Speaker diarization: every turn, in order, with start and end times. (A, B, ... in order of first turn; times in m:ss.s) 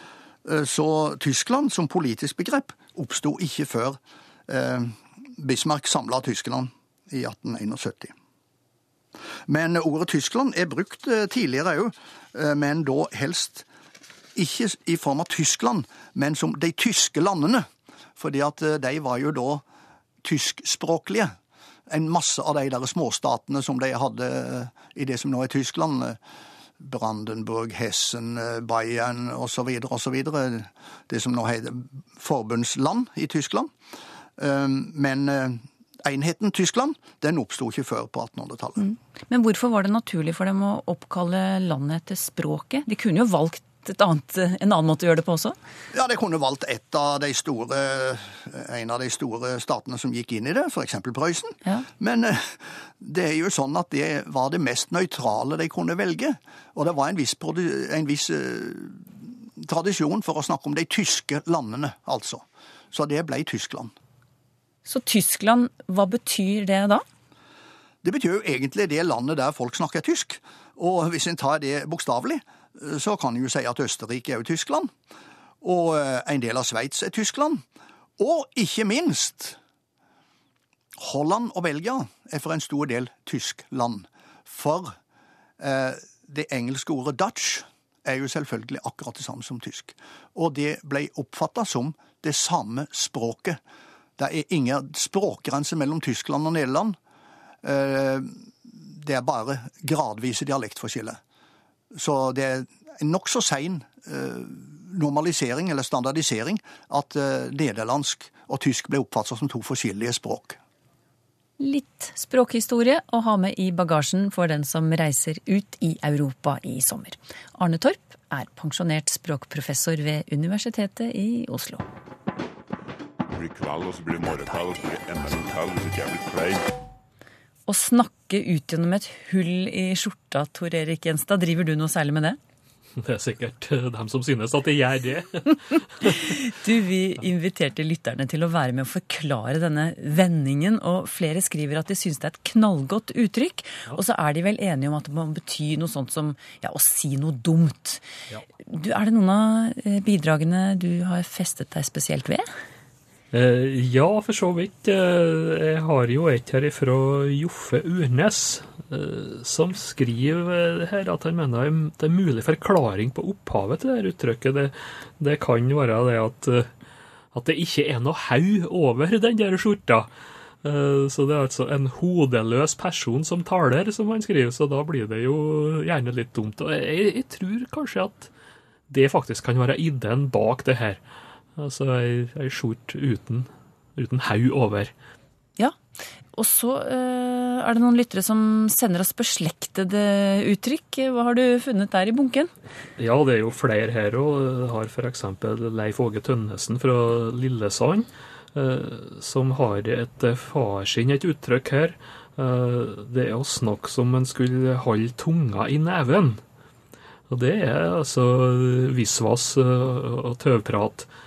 0:00.4-0:08.1 A
0:09.5-0:13.7 A
0:14.4-0:19.6 A
0:20.2-0:21.3 A
0:21.9-0:26.2 A
0:26.8-0:33.7 A
0:34.4-0:38.9 A
0:38.8-0:45.6 B
0:45.9-1:03.9 A
1:04.9-1:07.0 B
1:08.0-1:14.9 A
1:15.6-1:17.6 A
1:18.2-1:19.6 A
1:21.0-1:25.0 A
1:25.6-1:33.6 A
1:34.2-1:37.0 A
1:37.6-1:41.2 A
1:41.9-1:50.6 A
1:51.6-2:01.9 B
2:03.3-2:06.7 C
2:07.7-2:12.4 B
2:13.0-2:16.3 D
2:16.0-2:28.0 B
2:28.7-2:32.5 B
2:33.3-2:46.7 D
2:47.3-2:50.1 D
2:50.6-2:58.3 D
2:58.9-3:01.0 D
3:01.6-3:04.9 D
3:06.4-3:12.5 B
3:13.0-3:26.4 D
3:27.3-3:31.1 D